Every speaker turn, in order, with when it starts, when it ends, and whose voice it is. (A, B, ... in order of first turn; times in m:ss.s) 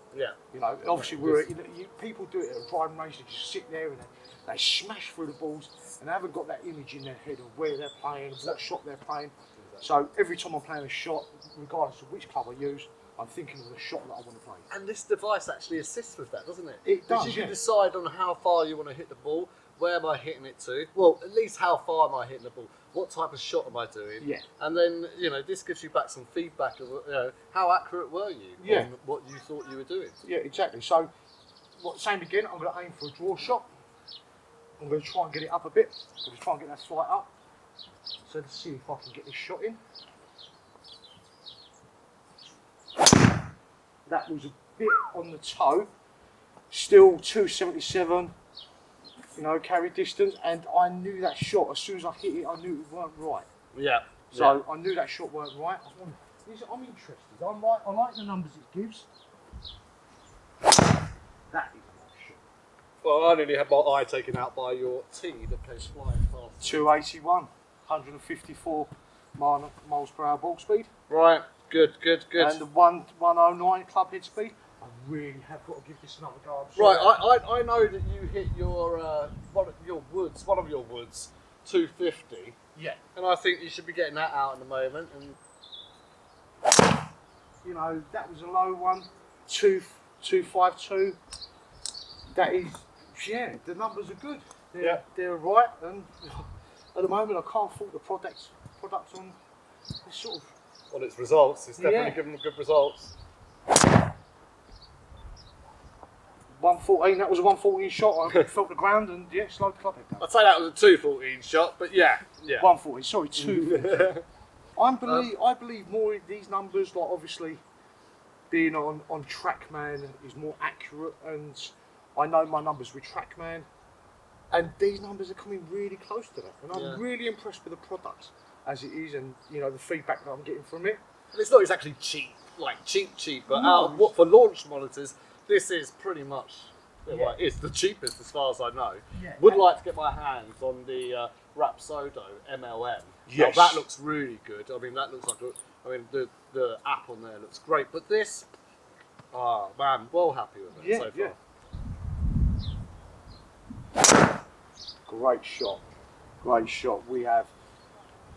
0:00.1-0:01.5 A
0:00.5-0:14.6 B
0:14.7-0:30.2 A
0:16.8-0:17.6 B
0:28.6-0:28.9 B
0:30.2-0:31.1 B
0:31.8-0:33.6 B
0:34.8-0:37.3 B
0:38.2-0:39.8 B
0:44.1-0:45.9 B
0:46.7-0:48.3 B
0:49.4-0:53.5 B
0:53.7-0:54.6 A
0:54.3-0:59.1 B
1:01.5-1:02.4 B
1:03.0-1:06.9 A
1:06.6-1:10.9 B
1:11.1-1:12.6 A
1:12.4-1:17.2 B
1:16.7-1:22.6 A
1:22.8-1:23.0 B
1:23.1-1:25.4 A
1:27.6-1:31.2 B
1:32.3-1:39.4 B
1:40.0-1:40.5 B
1:40.9-1:43.1 A
1:41.8-1:42.2 B
1:46.6-1:50.3 B
1:50.2-1:52.7 A
1:52.6-1:54.1 B
1:53.3-1:54.2 A
1:54.8-1:57.6 B
1:58.5-2:03.7 B
2:04.5-2:11.0 B
2:06.7-2:07.0 A
2:11.3-2:28.5 A
2:13.5-2:14.1 B
2:17.1-2:17.4 B
2:19.1-2:19.7 B
2:23.3-2:23.8 B
2:29.3-2:31.4 A
2:30.7-2:31.3 B
2:35.1-2:35.8 B
2:36.4-2:37.5 B